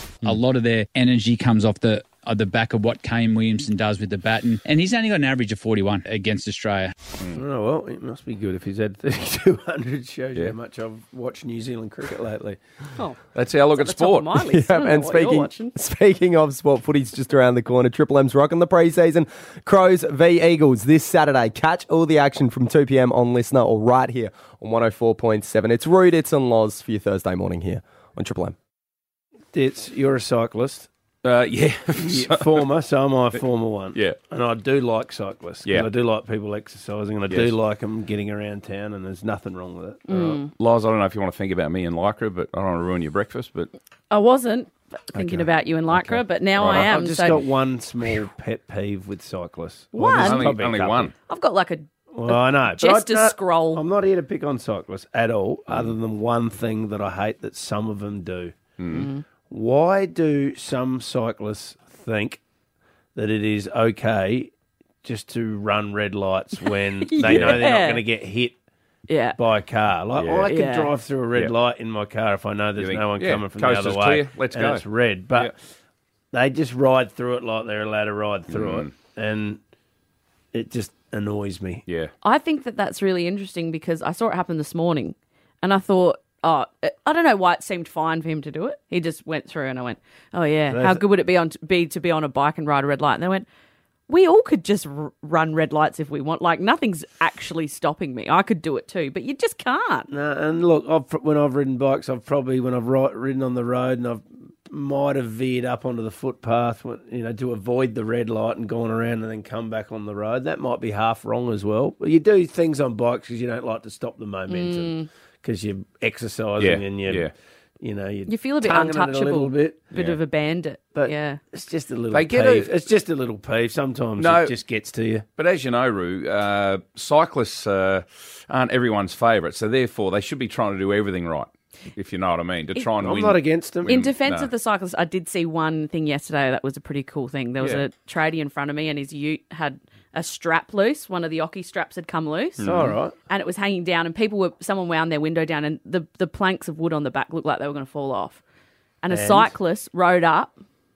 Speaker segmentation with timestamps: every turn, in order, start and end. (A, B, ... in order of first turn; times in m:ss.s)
0:00.2-0:06.9 A
0:07.3-0:12.6 B
0:13.3-0:14.4 C
0:13.8-0:15.7 D
0:14.5-0:28.6 E
0:29.5-0:30.9 B
0:31.2-0:32.6 C
0:32.0-0:40.4 B
0:40.1-0:40.5 D
0:40.2-0:43.7 C
0:44.1-0:47.4 D
0:45.2-0:47.4 C
0:46.6-0:51.1 B
0:49.9-0:50.6 D
0:50.2-0:51.1 C
0:51.3-0:53.8 D
0:52.1-0:58.6 B
0:58.8-0:59.1 C
0:58.9-0:59.2 D
0:59.5-1:02.4 B
1:03.1-1:04.5 B
1:05.0-1:08.6 B
1:07.0-1:08.0 D
1:07.2-1:07.6 C
1:09.1-1:09.4 D
1:09.4-1:15.5 B
1:10.2-1:10.5 C
1:10.4-1:10.9 D
1:12.8-1:15.5 C
1:16.3-1:19.6 B
1:18.5-1:18.9 C
1:20.5-1:21.8 B
1:21.9-1:22.1 C
1:22.2-1:33.4 D
1:30.7-1:31.0 B
1:34.1-1:40.1 D
1:40.1-1:59.8 B
1:54.5-1:55.1 D
1:56.6-1:57.3 C
1:58.3-2:01.4 D
1:59.9-2:00.2 C
2:00.9-2:05.2 B
2:02.1-2:02.8 C
2:04.2-2:04.5 C
2:05.4-2:14.5 C
2:13.0-2:14.1 B
2:13.9-2:22.6 D
2:22.6-2:23.0 C
2:22.6-2:23.1 B
2:23.3-2:28.4 D
2:29.0-2:30.6 D
2:29.1-2:29.5 B